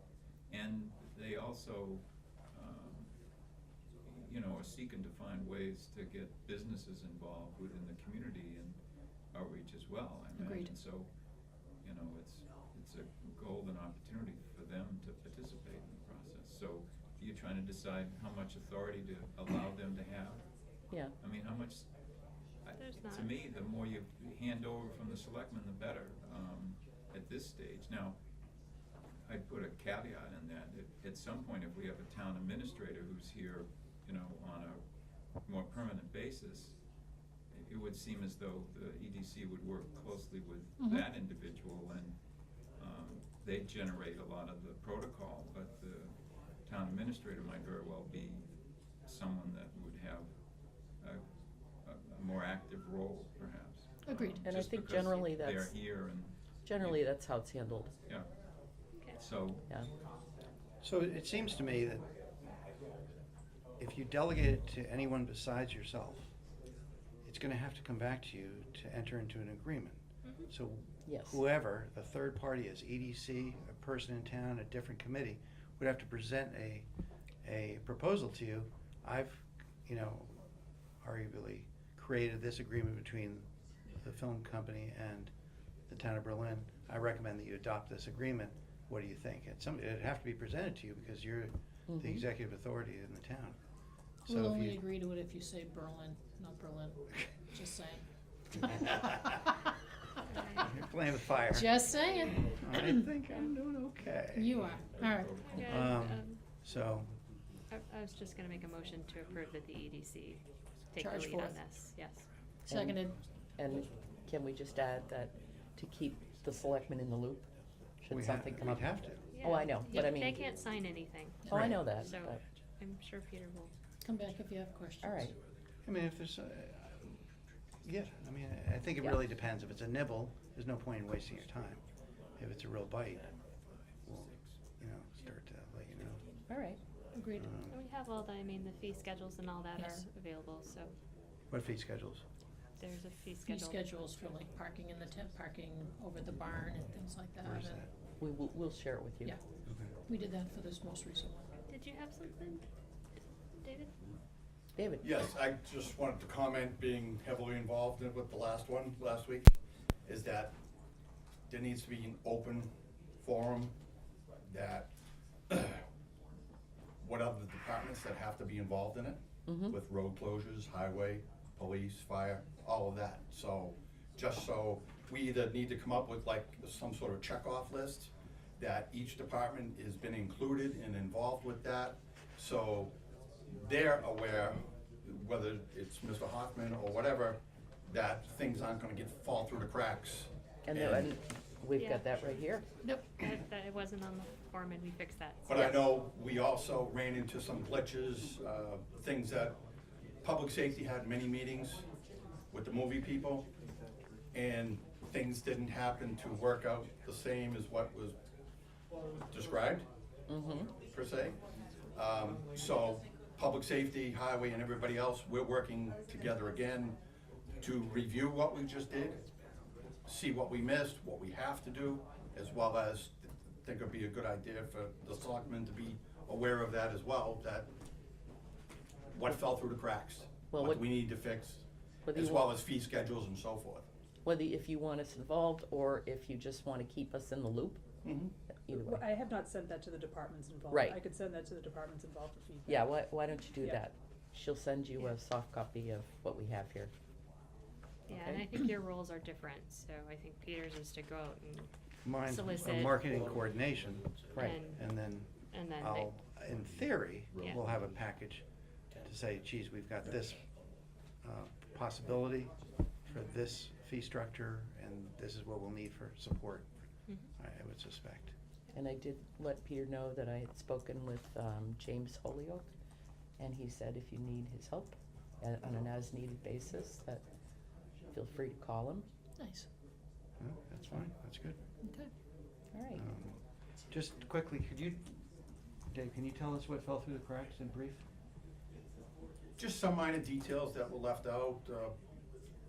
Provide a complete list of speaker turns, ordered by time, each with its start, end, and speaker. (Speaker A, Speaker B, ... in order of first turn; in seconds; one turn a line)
Speaker A: 0.5-3.1
Speaker A: 4.1-8.8
Speaker A: 9.3-11.1
Speaker A: 11.8-20.4
Speaker A: 21.2-21.9
Speaker A: 22.6-28.2
Speaker B: 22.8-23.3
Speaker A: 29.3-34.8
Speaker A: 35.5-36.8
Speaker A: 37.5-42.1
Speaker A: 42.8-48.5
Speaker A: 49.1-50.3
Speaker A: 51.9-57.0
Speaker C: 54.1-54.4
Speaker D: 54.2-55.8
Speaker D: 56.6-57.9
Speaker A: 59.2-59.6
Speaker E: 60.8-62.0
Speaker E: 63.8-66.3
Speaker E: 67.3-76.9
Speaker D: 71.1-71.4
Speaker E: 77.4-80.4
Speaker E: 81.0-83.5
Speaker E: 84.0-85.3
Speaker E: 85.9-93.6
Speaker D: 91.9-92.2
Speaker C: 94.3-98.0
Speaker E: 94.3-94.8
Speaker B: 100.3-100.7
Speaker E: 100.6-101.9
Speaker C: 101.5-103.0
Speaker E: 102.6-104.6
Speaker C: 104.3-105.3
Speaker A: 105.0-105.9
Speaker B: 105.4-106.4
Speaker E: 105.6-107.1
Speaker B: 107.7-112.3
Speaker C: 111.0-111.6
Speaker C: 112.7-113.1
Speaker D: 112.7-117.5
Speaker D: 118.0-118.9
Speaker E: 118.1-119.2
Speaker B: 119.4-123.7
Speaker D: 119.4-120.5
Speaker E: 121.5-121.8
Speaker D: 121.5-122.4
Speaker C: 124.0-125.2
Speaker D: 125.0-125.4
Speaker E: 125.9-127.1
Speaker E: 127.8-131.8
Speaker E: 132.4-133.3
Speaker E: 134.1-136.2
Speaker D: 136.5-136.8
Speaker C: 137.2-137.4
Speaker E: 137.3-137.8
Speaker B: 137.7-140.9
Speaker D: 139.8-140.0
Speaker E: 141.5-142.2
Speaker B: 142.8-143.9
Speaker C: 143.5-147.8
Speaker E: 147.4-147.9
Speaker D: 148.2-149.4
Speaker E: 149.7-149.9
Speaker C: 150.1-151.5
Speaker B: 151.7-152.7
Speaker B: 153.6-153.9
Speaker D: 154.8-155.0
Speaker F: 155.0-159.6
Speaker F: 160.1-160.5
Speaker F: 161.5-163.7
Speaker F: 164.4-164.9
Speaker F: 165.5-165.8
Speaker F: 167.0-182.9
Speaker D: 169.5-169.8
Speaker F: 183.5-191.1
Speaker D: 190.7-192.9
Speaker B: 191.8-192.1
Speaker B: 193.2-195.8
Speaker F: 195.5-199.6
Speaker F: 200.2-201.9
Speaker F: 202.5-203.5
Speaker F: 204.3-208.2
Speaker F: 209.3-209.9
Speaker D: 210.3-210.7
Speaker F: 210.9-211.4
Speaker F: 211.9-217.0
Speaker F: 217.6-219.2
Speaker F: 220.1-227.7
Speaker F: 229.1-233.9
Speaker D: 230.5-230.9
Speaker D: 232.1-232.5
Speaker D: 234.2-237.8
Speaker F: 238.0-238.3
Speaker D: 238.6-239.0
Speaker G: 238.7-243.0
Speaker D: 240.7-241.0
Speaker D: 242.7-246.9
Speaker G: 243.6-243.8
Speaker B: 248.1-251.7
Speaker D: 248.1-248.4
Speaker E: 252.1-258.4
Speaker B: 252.2-253.1
Speaker D: 254.3-254.6
Speaker B: 254.4-254.8
Speaker B: 255.5-256.1
Speaker E: 259.0-260.4
Speaker E: 261.2-262.5
Speaker E: 263.1-266.7
Speaker E: 267.4-268.3
Speaker D: 268.7-272.7
Speaker D: 273.4-277.2
Speaker D: 278.1-279.1
Speaker C: 279.4-279.7
Speaker E: 280.4-281.6
Speaker D: 282.7-283.0
Speaker E: 282.9-283.4
Speaker E: 283.9-285.1
Speaker E: 285.9-288.0
Speaker F: 289.6-291.9